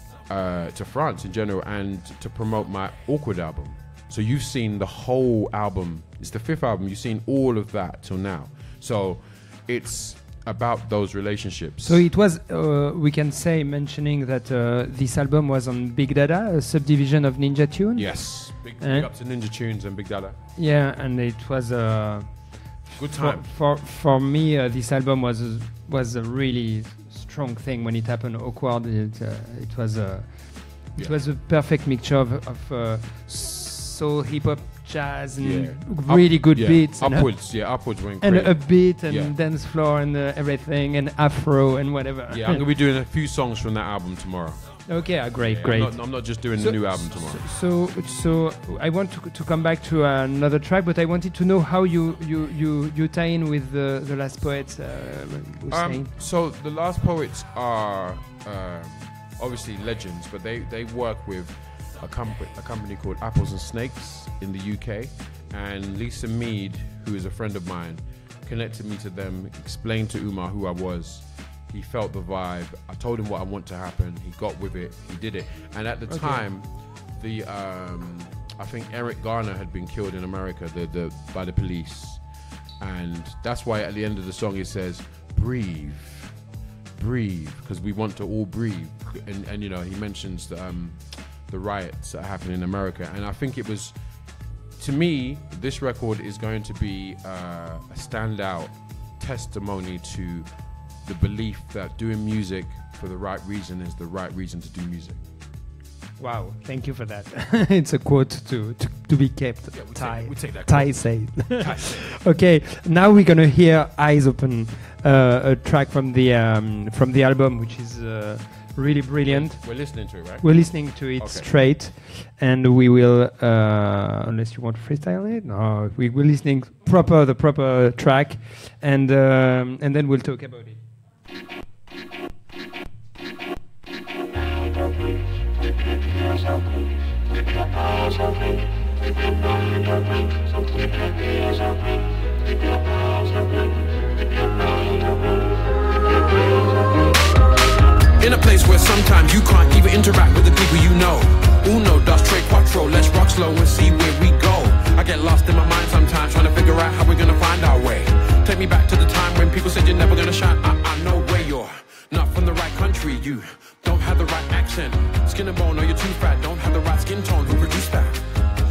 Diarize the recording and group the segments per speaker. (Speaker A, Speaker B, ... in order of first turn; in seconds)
Speaker A: 0.3-12.0, 17.9-20.4, 22.9-23.5, 35.4-39.4, 42.3-44.7, 45.4-47.4, 55.7-82.2, 82.8-86.3, 87.0-94.0, 94.8-100.5, 101.0-105.2, 109.7-112.0, 119.3-121.5
Speaker B: 11.8-19.1, 20.6-37.5, 38.2-42.6, 44.9-56.1, 76.1-76.4, 106.2-130.8
Speaker C: 148.2-168.2